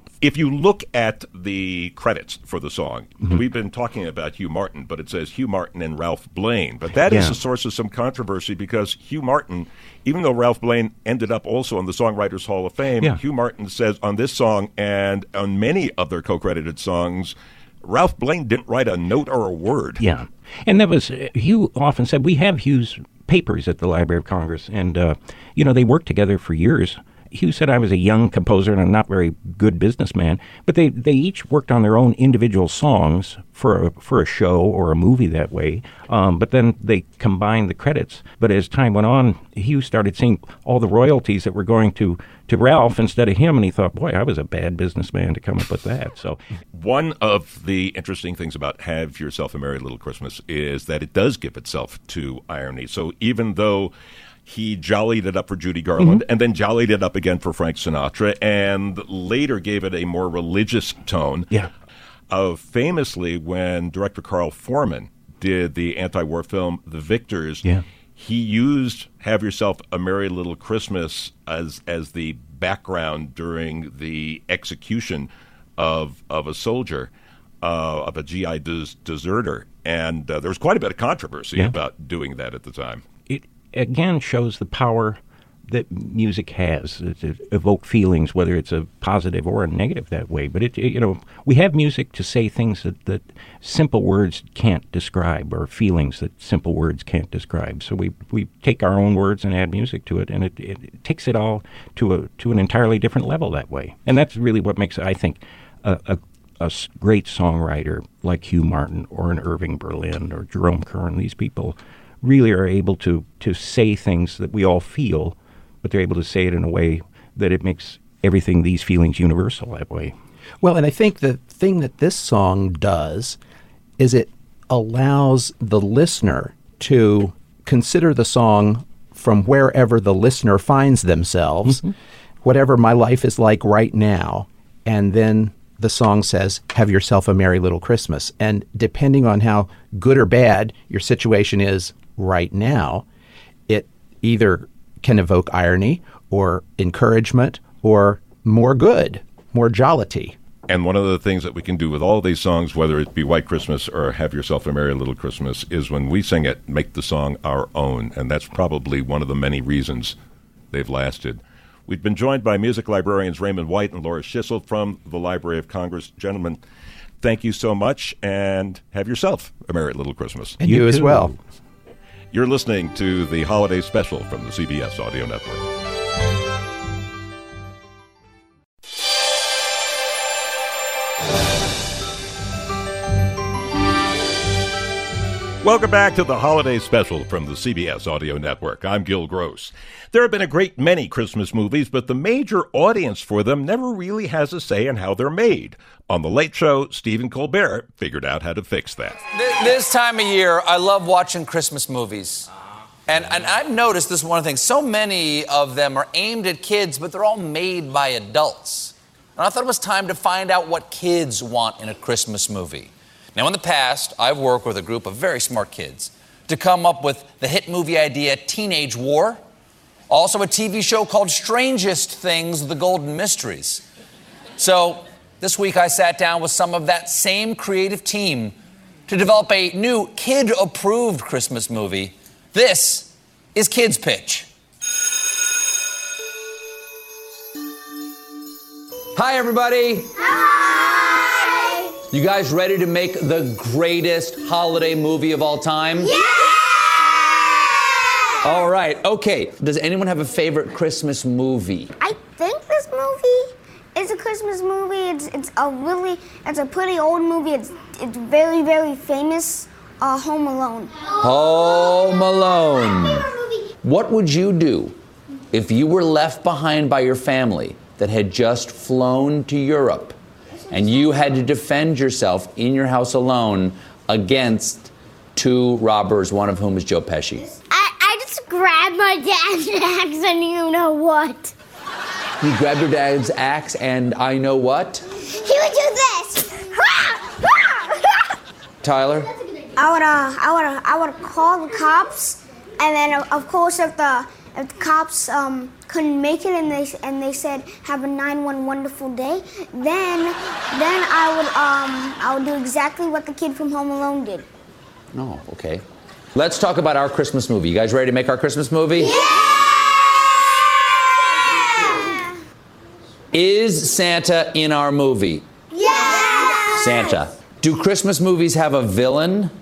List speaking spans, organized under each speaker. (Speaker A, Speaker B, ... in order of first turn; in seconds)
Speaker A: 0.2-20.0, 46.7-53.9, 54.5-61.5, 62.3-77.1, 77.6-83.0, 150.7-160.2, 160.7-166.6, 167.2-170.6, 172.3-175.6, 185.6-199.2
Speaker B: 6.9-7.4, 20.0-46.4, 56.0-56.2, 83.2-120.1, 131.6-131.9, 170.6-171.3
Speaker C: 120.6-123.4, 124.0-131.8, 132.4-143.0, 143.7-150.4, 170.6-171.3
Speaker D: 199.3-202.4, 203.1-219.4, 220.1-223.8, 224.6-228.6, 229.1-234.5, 239.1-240.1, 242.1-246.1, 248.4-251.9, 261.2-263.3, 263.8-264.9, 265.5-270.1, 270.7-277.5, 282.4-285.0, 288.8-289.3, 305.1-309.1, 313.3-315.4, 316.7-319.5
Speaker E: 240.2-241.9, 246.0-248.2, 252.0-261.1, 277.7-281.5, 285.3-287.9, 289.8-304.4, 309.0-312.3, 315.7-317.1